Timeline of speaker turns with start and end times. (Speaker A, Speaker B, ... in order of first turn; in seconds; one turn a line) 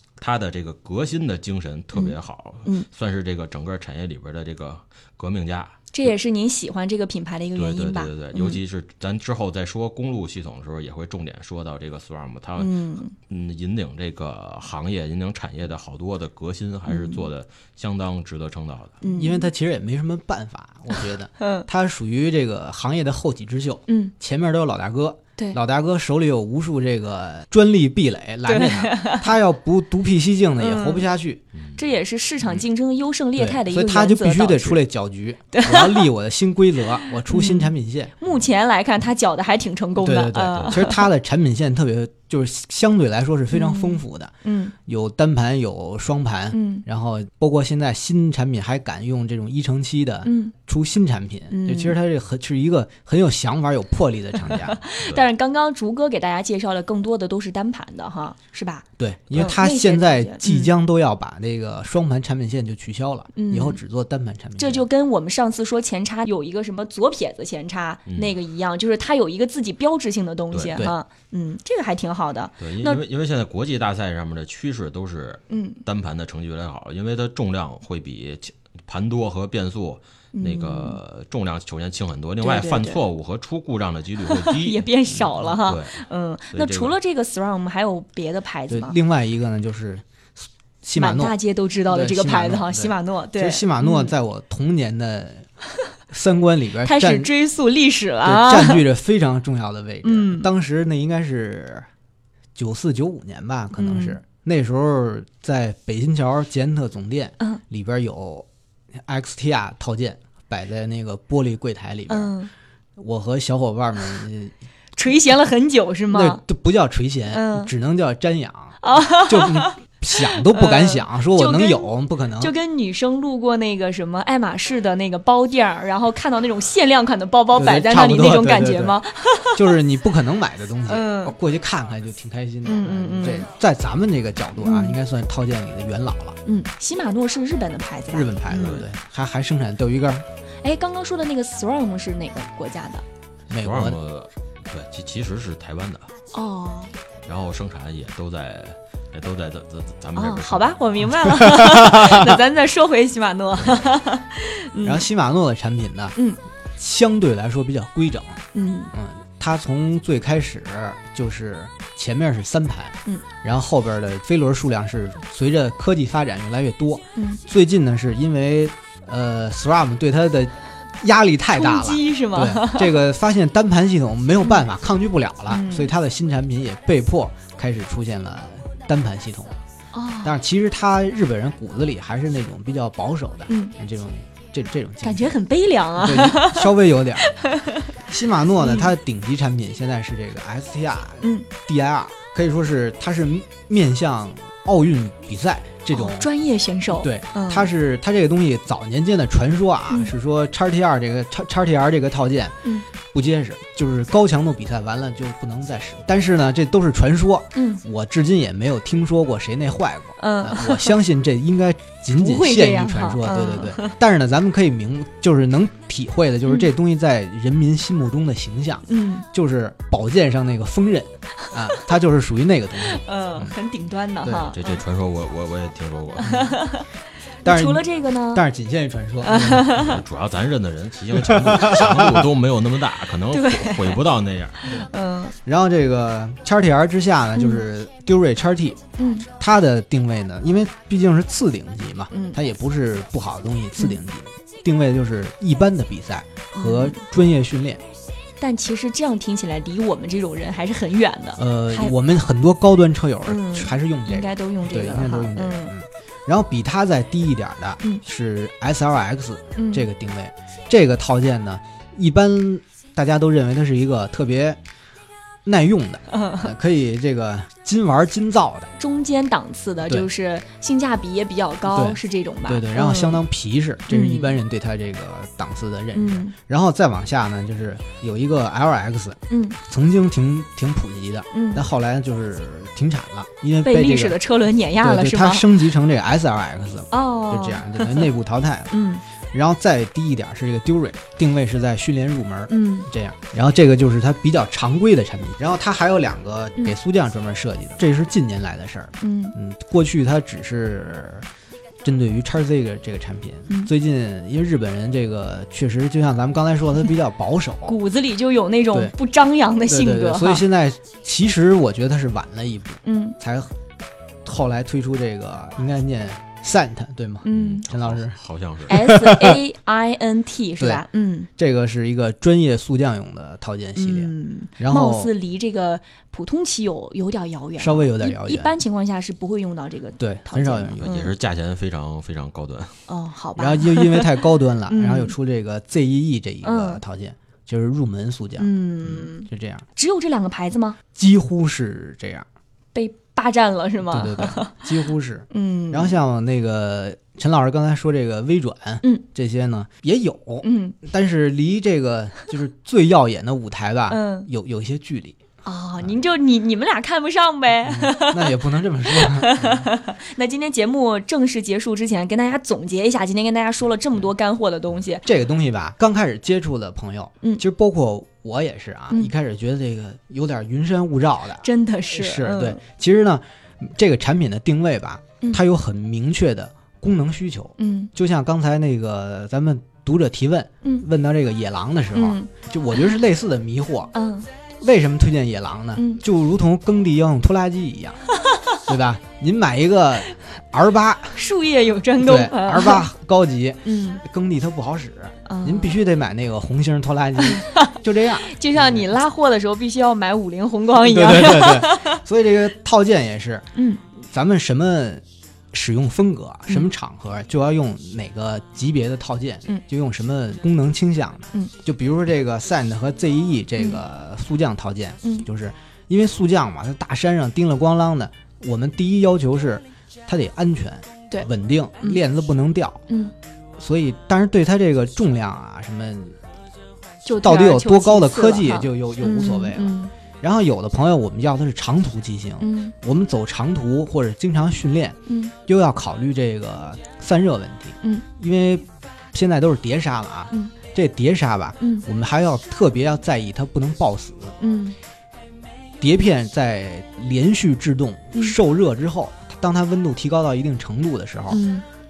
Speaker A: 0.2-6.1
Speaker B: 1.9-2.9
Speaker B: 5.9-8.6
Speaker A: 7.6-19.0
Speaker B: 12.6-13.1
Speaker B: 16.9-17.3
Speaker B: 19.0-19.5
Speaker C: 19.1-31.4
Speaker B: 20.9-21.7
Speaker B: 23.9-24.1
Speaker B: 28.5-29.3
Speaker B: 30.6-31.1
Speaker A: 31.5-31.8
Speaker B: 31.8-34.8
Speaker C: 33.4-38.1
Speaker B: 35.5-36.1
Speaker B: 37.3-41.1
Speaker C: 40.0-44.3
Speaker B: 43.5-44.7
Speaker C: 44.9-54.8
Speaker B: 46.5-46.8
Speaker B: 50.2-50.5
Speaker B: 51.5-52.0
Speaker B: 54.5-60.7
Speaker A: 55.0-55.2
Speaker C: 59.0-64.8
Speaker A: 59.3-59.6
Speaker B: 63.4-63.8
Speaker B: 64.6-73.0
Speaker A: 68.1-68.3
Speaker A: 70.5-70.9
Speaker A: 72.6-87.0
Speaker B: 75.5-75.8
Speaker B: 80.3-81.0
Speaker B: 82.4-83.0
Speaker B: 84.3-89.0
Speaker C: 88.7-91.3
Speaker B: 91.0-94.1
Speaker C: 91.9-95.5
Speaker C: 96.1-97.3
Speaker B: 96.8-98.8
Speaker C: 98.2-101.9
Speaker B: 100.0-100.5
Speaker C: 102.6-108.5
Speaker B: 103.7-104.2
Speaker C: 109.0-112.3
Speaker B: 112.1-112.5
Speaker C: 113.0-114.5
Speaker B: 115.0-116.4
Speaker C: 116.1-122.5
Speaker B: 117.3-117.7
Speaker B: 118.8-129.7
Speaker C: 127.5-129.0
Speaker C: 129.5-136.4
Speaker B: 130.9-131.3
Speaker B: 132.6-133.5
Speaker B: 134.6-135.0
Speaker B: 136.5-138.8
Speaker C: 138.1-140.2
Speaker A: 138.5-138.9
Speaker B: 140.6-143.1
Speaker C: 143.5-144.0
Speaker A: 143.6-146.1
Speaker B: 146.3-146.9
Speaker A: 147.3-150.8
Speaker B: 150.2-155.1
Speaker C: 151.6-152.3
Speaker C: 154.8-156.2
Speaker C: 156.8-158.4
Speaker B: 158.5-158.9
Speaker C: 158.9-179.6
Speaker B: 171.5-173.0
Speaker B: 175.5-175.9
Speaker B: 179.9-180.4
Speaker C: 180.2-185.3
Speaker B: 183.5-183.8
Speaker B: 185.0-186.7
Speaker C: 186.0-187.3
Speaker B: 187.3-187.9
Speaker C: 188.1-196.3
Speaker B: 188.6-188.9
Speaker B: 191.2-191.5
Speaker B: 195.9-197.7
Speaker C: 196.9-202.6
Speaker C: 203.1-223.6
Speaker B: 207.6-207.8
Speaker B: 210.2-210.9
Speaker B: 212.2-214.0
Speaker B: 218.9-219.3
Speaker B: 221.4-221.8
Speaker B: 222.8-224.8
Speaker C: 224.2-224.5
Speaker A: 224.5-226.6
Speaker B: 226.2-226.9
Speaker B: 227.4-228.4
Speaker C: 227.4-229.7
Speaker B: 229.2-230.0
Speaker A: 229.7-234.6
Speaker C: 231.1-232.3
Speaker B: 233.3-234.0
Speaker B: 234.6-235.3
Speaker C: 235.4-247.8
Speaker B: 237.3-237.6
Speaker B: 239.0-239.3
Speaker B: 242.1-242.4
Speaker B: 246.5-247.0
Speaker B: 248.4-251.9
Speaker C: 251.4-264.6
Speaker B: 253.3-255.7
Speaker B: 259.6-259.9
Speaker C: 265.4-268.7
Speaker B: 266.1-266.5
Speaker B: 268.8-273.2
Speaker C: 271.7-284.2
Speaker B: 273.9-274.4
Speaker B: 275.9-276.3
Speaker B: 279.3-279.6
Speaker B: 281.3-281.6
Speaker B: 283.6-285.6
Speaker C: 284.8-288.7
Speaker B: 286.9-288.1
Speaker B: 288.7-289.0
Speaker C: 289.3-301.3
Speaker B: 292.5-292.9
Speaker B: 299.0-299.4
Speaker C: 301.8-307.8
Speaker B: 307.7-310.4
Speaker C: 309.7-313.5
Speaker B: 312.8-313.2
Speaker C: 314.2-318.2
Speaker B: 317.2-317.6
Speaker A: 317.3-318.8
Speaker C: 318.7-319.4
Speaker B: 318.7-321.3
Speaker C: 320.6-320.8
Speaker C: 321.4-325.1
Speaker B: 323.8-331.1
Speaker C: 327.6-328.6
Speaker C: 330.0-330.9
Speaker A: 330.8-332.8
Speaker B: 332.9-334.1
Speaker C: 333.4-339.6
Speaker B: 334.7-335.1
Speaker B: 336.4-336.8
Speaker B: 338.4-340.8
Speaker C: 340.9-342.3
Speaker B: 342.7-344.6
Speaker C: 343.9-355.2
Speaker B: 345.3-346.0
Speaker B: 350.4-350.8
Speaker B: 353.9-354.3
Speaker B: 355.4-365.1
Speaker C: 357.7-359.7
Speaker C: 365.0-383.9
Speaker B: 371.4-372.6
Speaker B: 377.6-377.9
Speaker B: 381.9-382.3
Speaker B: 383.9-384.3
Speaker C: 384.6-388.0
Speaker B: 385.8-386.0
Speaker B: 388.2-388.5
Speaker C: 388.6-391.2
Speaker B: 391.1-392.9
Speaker C: 392.0-398.9
Speaker B: 393.6-394.0
Speaker B: 395.3-395.8
Speaker B: 397.2-402.0
Speaker C: 400.8-422.9
Speaker B: 403.6-403.8
Speaker B: 413.6-413.8
Speaker B: 422.9-423.1
Speaker C: 423.6-426.2
Speaker B: 427.1-429.9
Speaker C: 427.2-444.4
Speaker B: 432.4-432.7
Speaker B: 435.1-435.3
Speaker B: 441.6-441.9
Speaker B: 444.4-444.8
Speaker C: 445.8-451.4
Speaker B: 451.3-451.6